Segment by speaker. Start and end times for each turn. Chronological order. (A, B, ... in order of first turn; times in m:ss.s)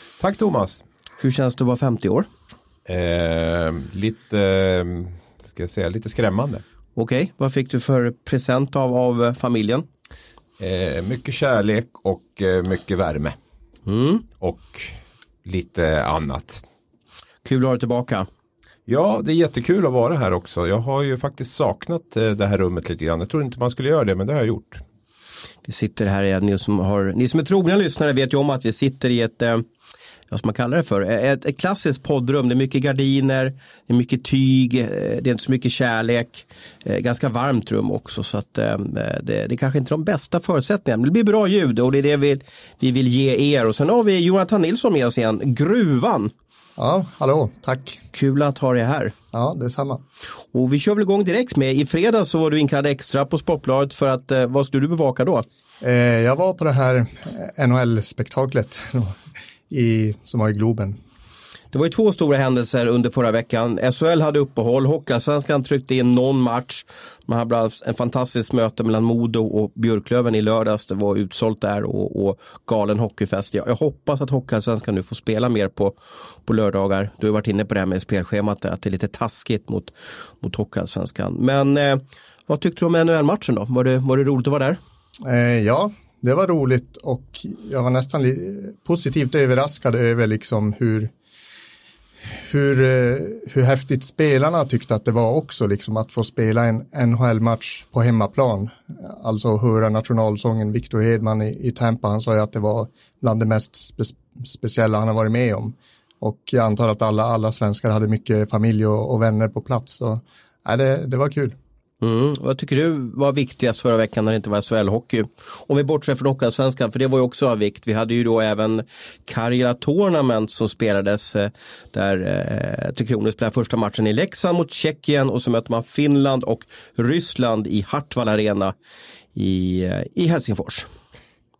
0:00.2-0:00.8 A
0:01.2-0:02.3 B
0:02.9-0:06.6 A
0:07.0-0:09.9 B
0:10.6-0:13.4 A
0:13.9-0:14.2 B
0:14.4-0:16.6 A
0:17.4-0:18.3 B
0:18.9-0:24.8 A
0:25.7-0:29.6 B
0:30.3-0:46.3 B
0:46.8-0:48.0 C
0:48.1-0:49.1 B
0:49.3-0:50.0 C
0:50.5-0:55.5 B
0:55.8-1:01.0 C
1:01.7-1:24.8 B
1:25.2-1:31.1 C
1:32.3-1:51.6 C
1:52.0-2:08.7 B
2:09.4-2:10.9 B